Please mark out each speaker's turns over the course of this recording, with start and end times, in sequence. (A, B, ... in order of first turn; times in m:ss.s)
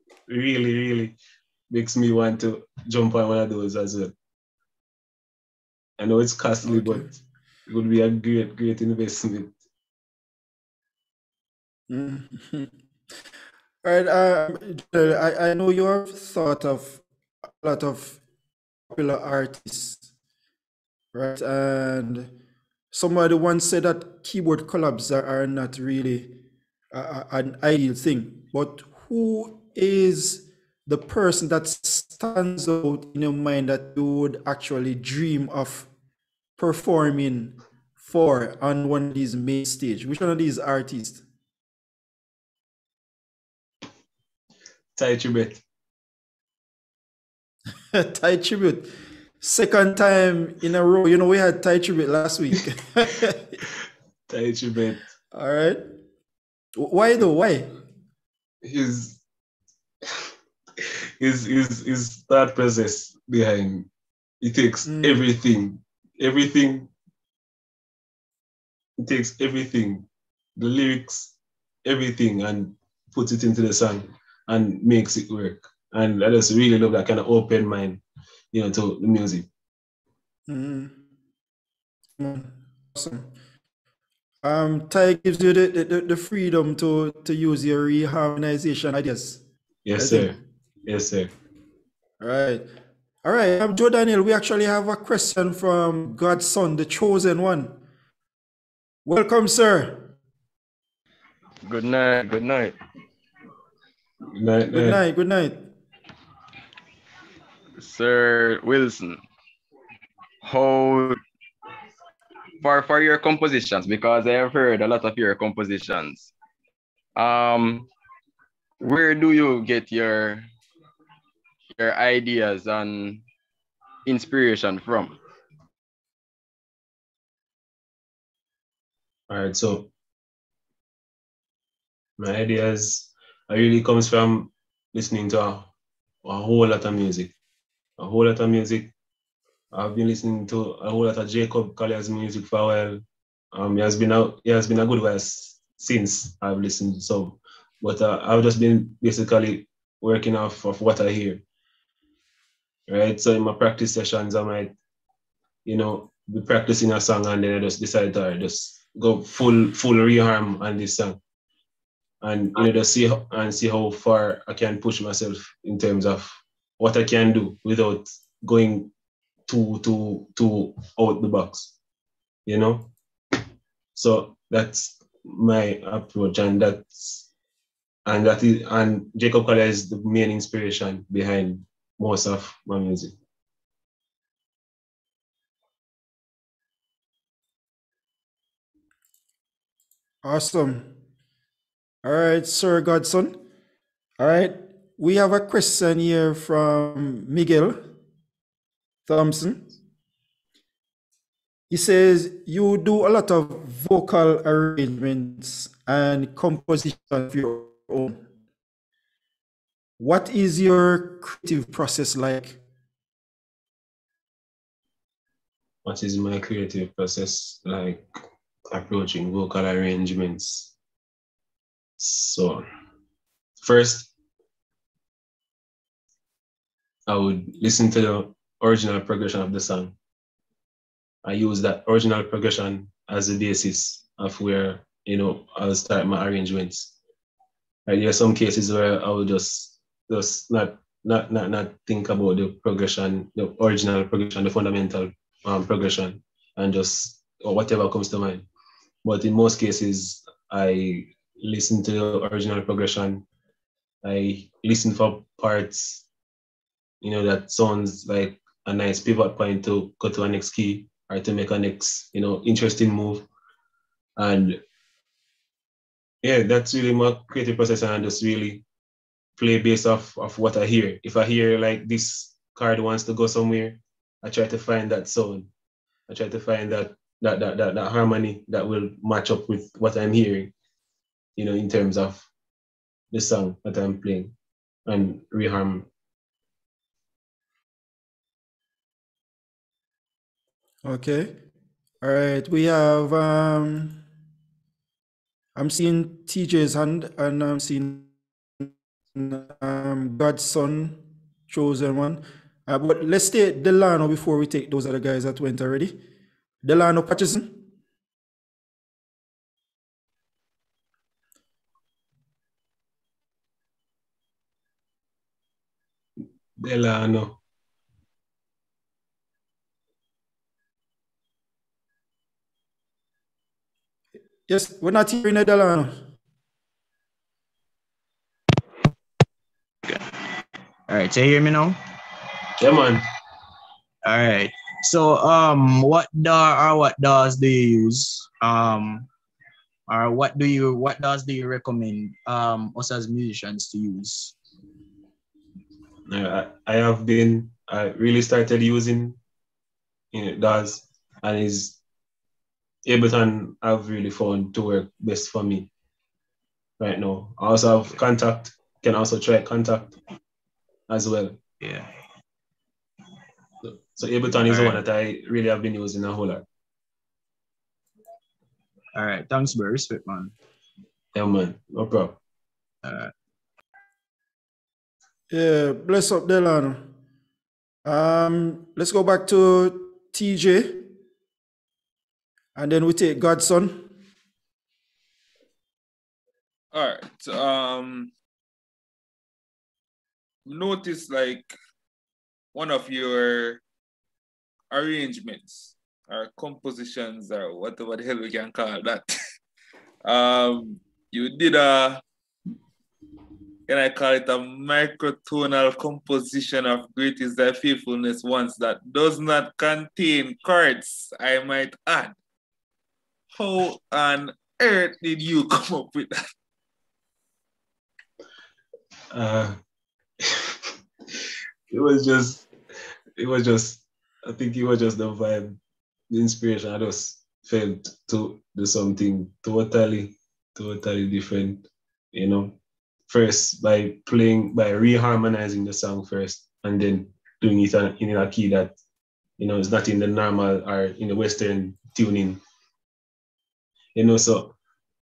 0:00.3-0:01.2 A
0:01.7-0:04.1 A
0:06.0-0:07.1 A
0:06.6-0:07.1 B
0:07.7-0:09.5 A
0:11.9-0:12.7 B
0:13.8-0:18.2 B
0:18.9-0:20.0 B
0:21.1-0:22.3 B
0:22.9-0:26.3 B
0:26.9-0:35.9 B
0:36.6-0:41.2 B
0:45.0-0:45.6 A
0:47.9-0:48.9 B
0:49.4-0:53.6 B
0:54.3-0:55.0 A
0:55.3-0:55.8 B
0:56.8-0:57.7 B
0:58.6-0:59.2 A
1:01.2-1:03.9 A
1:04.4-1:06.9 A
1:04.8-1:05.2 B
1:09.0-1:19.5 A
1:20.5-1:20.9 B
1:22.2-1:23.3 B
1:24.4-1:29.4 B
1:29.8-1:31.3 A
1:30.0-1:30.4 B
1:32.2-1:32.6 B
1:33.2-1:37.8 B
1:39.0-1:40.1 B
1:41.6-1:42.7 C
1:44.4-1:45.0 A
1:44.7-1:45.6 B
1:47.8-1:49.2 C
1:50.4-1:51.2 C
1:52.6-1:56.3 C
1:57.2-1:57.9 C
1:58.8-2:00.5 C
2:01.7-2:03.2 C
2:04.0-2:05.1 C
2:09.3-2:09.9 A
2:12.2-2:15.7 A
2:16.2-2:17.3 A
2:18.0-2:18.9 A
2:19.7-2:31.4 A
2:32.9-2:34.7 A
2:35.6-2:41.2 A
2:42.2-2:48.9 A
2:49.5-2:51.7 A
2:52.4-2:52.9 A
2:53.9-2:57.3 A
2:58.0-3:03.2 A
3:10.2-3:10.9 B
3:12.0-3:13.4 B
3:14.2-3:17.8 B
3:19.0-3:19.6 B
3:21.7-3:28.2 B
3:30.0-3:32.6 B
3:35.8-3:38.0 A
3:38.7-3:40.7 A
3:42.0-3:42.6 A
3:43.6-3:44.1 A
3:47.1-3:49.9 A
3:51.2-3:56.9 A
3:57.9-4:08.4 A
4:09.0-4:13.2 A
4:14.0-4:16.0 A
4:17.0-4:23.2 A
4:24.2-4:24.6 A
4:26.2-4:28.6 A
4:29.4-4:35.5 A
4:36.1-4:40.5 A
4:41.4-4:42.3 A
4:43.1-4:44.3 A
4:44.8-4:45.9 A
4:50.8-4:51.3 B
4:52.0-4:54.0 B
4:55.6-5:06.0 B
5:06.6-5:07.6 B
5:16.6-5:17.4 A
5:24.5-5:26.0 B
5:30.9-5:31.8 D
5:32.6-5:33.0 A
5:34.0-5:39.1 D
5:39.9-5:44.3 D
5:46.1-5:49.2 A
5:50.1-5:51.8 A
5:52.8-5:55.7 A
5:56.8-6:00.0 A
6:00.9-6:01.4 A
6:01.6-6:01.9 D
6:03.7-6:06.4 A
6:04.5-6:04.8 D
6:08.9-6:10.3 D
6:11.1-6:12.2 A
6:12.8-6:13.1 D
6:15.3-6:16.8 B
6:17.8-6:20.9 B
6:22.5-6:23.9 B
6:26.7-6:28.1 E
6:30.4-6:31.5 E
6:32.5-6:33.6 E
6:34.7-6:39.1 E
6:40.0-6:42.0 E
6:43.7-6:52.1 E
6:53.3-6:56.2 E
6:59.1-6:59.6 A
7:00.2-7:00.5 A
7:01.7-7:02.4 A
7:03.2-7:05.6 A
7:06.1-7:12.6 A
7:13.1-7:18.8 A
7:19.4-7:22.4 A
7:23.9-7:24.5 A